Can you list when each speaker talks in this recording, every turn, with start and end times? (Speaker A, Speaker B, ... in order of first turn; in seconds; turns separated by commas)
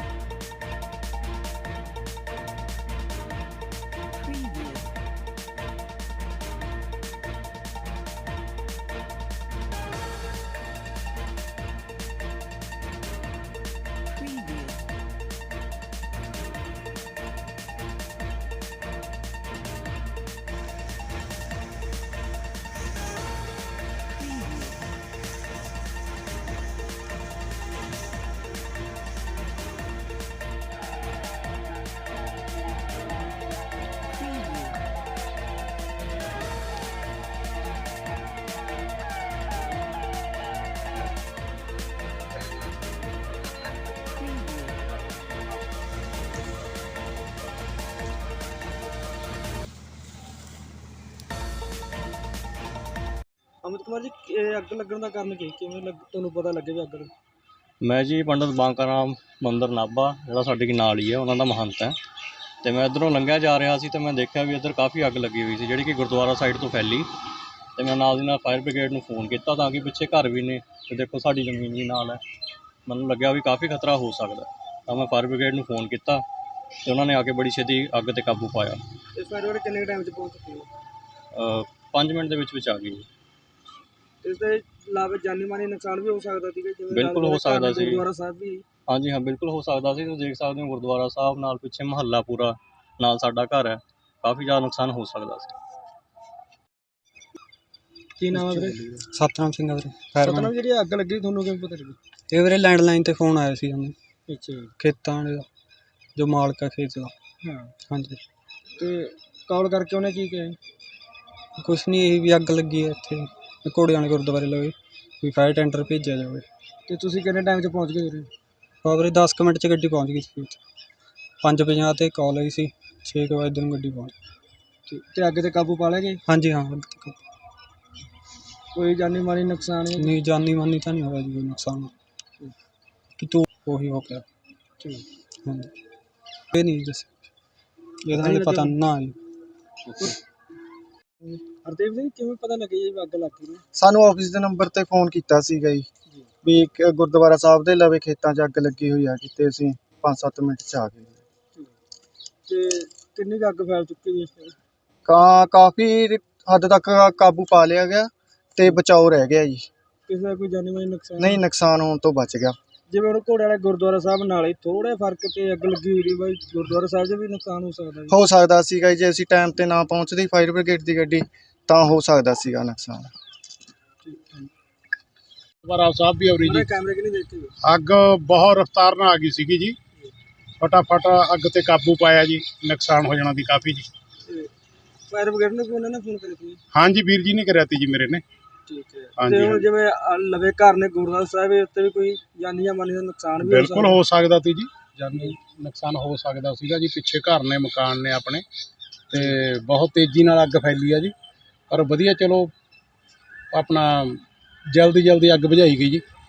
Speaker A: 53.6-57.1, Speaker B: 57.8-62.0, Speaker B: 62.6-67.1, Speaker B: 67.8-72.2, Speaker B: 72.8-76.2, Speaker B: 76.8-78.8, Speaker A: 79.1-80.7, Speaker B: 81.3-83.0, Speaker A: 84.2-88.6, Speaker B: 86.9-88.0, Speaker B: 88.9-95.5, Speaker A: 98.2-98.8, Speaker C: 98.6-100.5, Speaker A: 100.2-102.0, Speaker C: 102.3-104.0, Speaker A: 104.3-104.7, Speaker C: 104.8-105.5, Speaker C: 106.2-107.1, Speaker A: 107.4-107.7, Speaker C: 107.9-108.2, Speaker A: 108.8-110.6, Speaker C: 111.6-116.5, Speaker A: 116.9-118.3, Speaker C: 118.8-120.6, Speaker C: 121.4-124.1, Speaker A: 124.9-126.2, Speaker C: 126.2-127.2, Speaker A: 128.7-130.1, Speaker C: 129.9-131.9, Speaker C: 133.2-134.2, Speaker A: 134.8-135.1, Speaker C: 135.4-135.7, Speaker C: 136.5-137.1, Speaker C: 138.0-139.2, Speaker A: 138.1-138.8, Speaker A: 141.6-143.6, Speaker D: 143.7-145.9, Speaker D: 146.4-151.2, Speaker A: 152.5-154.6, Speaker D: 155.0-159.7, Speaker A: 160.1-161.4, Speaker D: 161.2-162.6, Speaker A: 162.9-168.2, Speaker D: 168.1-173.1, Speaker A: 174.0-174.5, Speaker E: 175.6-176.7, Speaker A: 176.4-177.5, Speaker E: 177.6-179.8, Speaker E: 180.6-183.9, Speaker A: 185.1-186.6, Speaker E: 186.7-188.2, Speaker A: 188.7-194.0, Speaker E: 189.2-189.7, Speaker E: 193.4-198.4, Speaker E: 199.1-201.1, Speaker E: 201.7-202.5, Speaker E: 203.5-204.2, Speaker E: 204.7-206.0